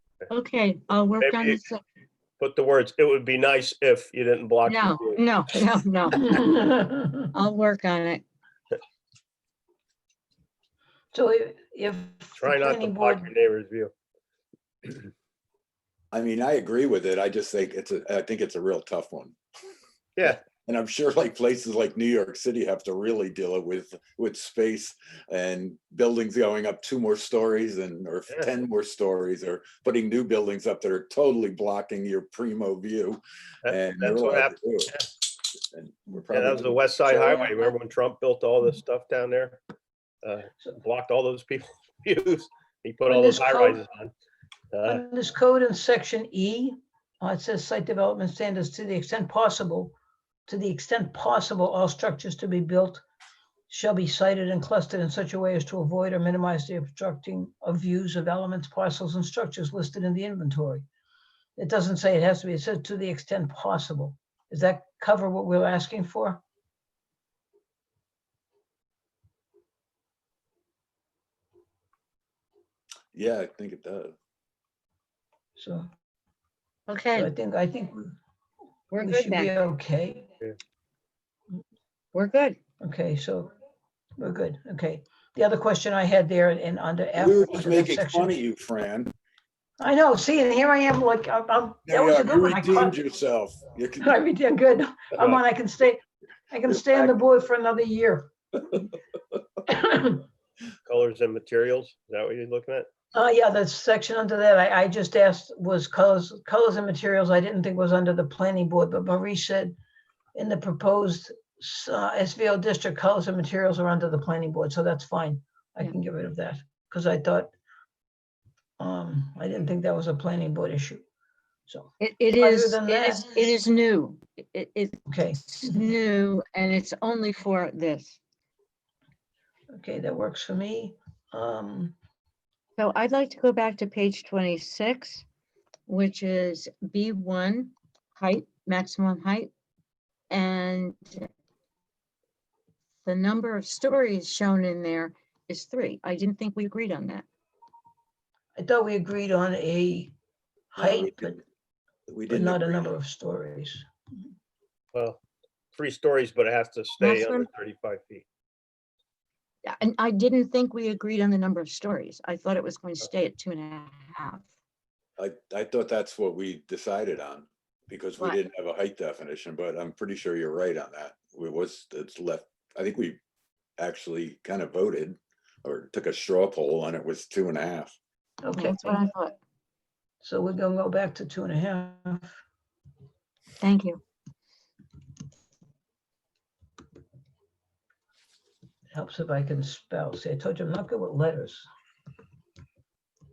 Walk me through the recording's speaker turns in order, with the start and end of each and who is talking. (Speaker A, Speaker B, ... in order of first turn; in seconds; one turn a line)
Speaker A: 0.3-1.8
Speaker B: 1.2-1.6
Speaker B: 2.4-5.2
Speaker A: 4.7-6.5
Speaker C: 6.2-7.3
Speaker A: 7.3-8.2
Speaker C: 11.1-13.3
Speaker B: 12.4-13.9
Speaker D: 16.1-19.4
Speaker D: 20.2-34.9
Speaker B: 33.6-35.1
Speaker D: 35.7-37.5
Speaker B: 36.3-39.6
Speaker B: 40.2-44.1
Speaker C: 43.1-43.8
Speaker B: 44.7-45.0
Speaker C: 44.9-50.0
Speaker C: 50.5-53.0
Speaker C: 53.7-60.9
Speaker C: 61.6-66.4
Speaker D: 73.1-74.2
Speaker C: 75.6-75.9
Speaker A: 76.9-77.3
Speaker C: 77.1-78.2
Speaker A: 78.9-79.5
Speaker C: 78.9-80.2
Speaker A: 82.1-82.6
Speaker C: 82.8-83.5
Speaker C: 84.2-88.4
Speaker D: 87.2-89.1
Speaker C: 89.8-93.0
Speaker D: 91.9-94.1
Speaker C: 94.0-96.0
Speaker C: 96.5-98.3
Speaker D: 96.7-97.2
Speaker C: 99.7-100.3
Speaker B: 100.9-102.9
Speaker C: 103.1-109.8
Speaker C: 110.3-117.5
Speaker C: 118.8-121.0
Speaker A: 122.0-128.2
Speaker C: 122.4-123.5
Speaker C: 125.1-125.8
Speaker C: 129.8-131.9
Speaker A: 132.8-135.2
Speaker A: 135.9-139.5
Speaker A: 140.3-141.3
Speaker A: 143.1-147.3
Speaker C: 148.6-150.2
Speaker C: 150.7-151.4
Speaker D: 150.8-151.4
Speaker D: 152.1-153.0
Speaker C: 152.3-153.9
Speaker B: 154.9-155.2
Speaker B: 155.8-158.2
Speaker A: 157.0-157.5
Speaker A: 159.7-164.4
Speaker D: 165.2-173.2
Speaker D: 173.8-178.0
Speaker C: 178.4-179.0
Speaker A: 178.5-179.4
Speaker C: 180.2-182.3
Speaker A: 183.6-184.0
Speaker C: 188.9-191.7